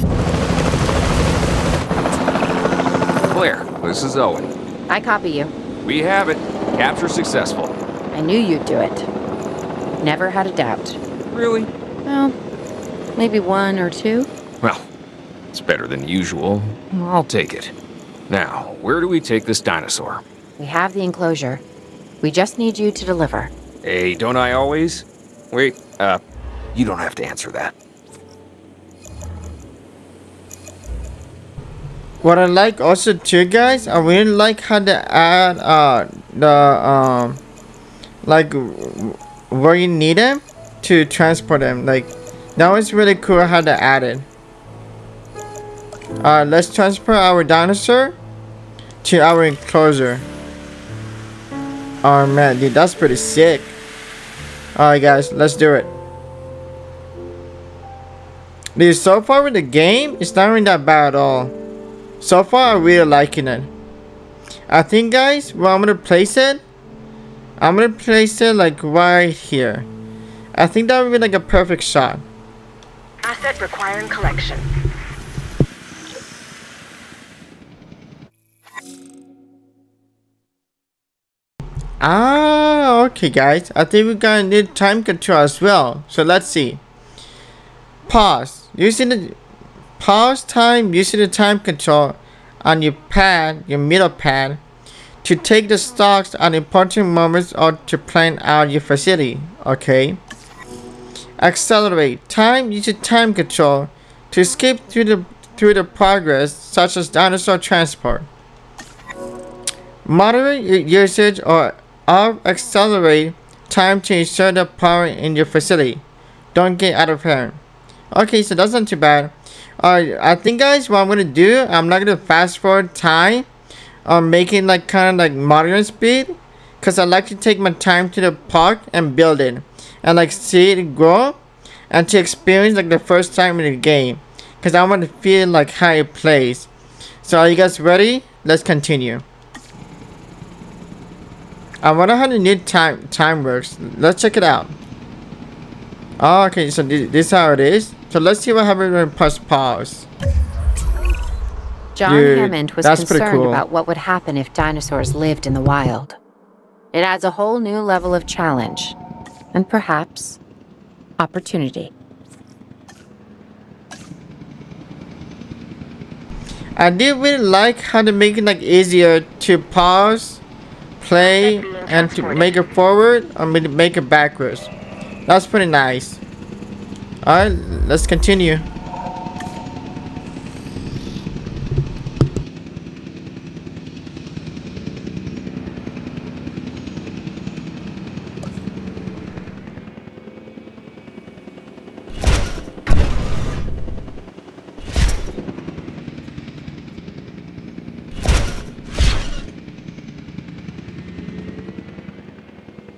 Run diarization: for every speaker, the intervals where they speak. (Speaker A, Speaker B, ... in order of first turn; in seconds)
Speaker A: 3.3-4.5, 5.8-7.8, 11.3-11.7, 15.5-17.7, 18.3-20.2, 23.8-26.2, 26.7-27.8
Speaker B: 4.9-5.5, 8.1-9.1, 10.0-11.0, 12.1-12.3, 13.2-14.3, 20.6-21.6, 22.2-23.5, 151.9-156.2, 156.9-159.0, 159.5-160.4, 161.2-161.9
Speaker C: 32.2-37.4, 38.2-44.3, 46.2-48.2, 49.0-50.3, 52.0-53.8, 54.8-55.9, 58.8-61.6, 62.2-63.7, 64.7-66.6, 67.6-69.9, 70.6-72.2, 82.0-86.8, 88.1-89.4, 90.0-94.6, 95.2-100.2, 101.4-108.3, 110.0-116.0, 116.5-117.6, 118.1-123.5, 124.0-136.7, 137.2-139.2, 141.8-144.8, 146.2-150.1, 152.1-153.6, 166.8-170.4, 171.0-174.7, 175.3-176.2, 177.2-178.7
Speaker D: 73.2-74.7, 171.2-172.6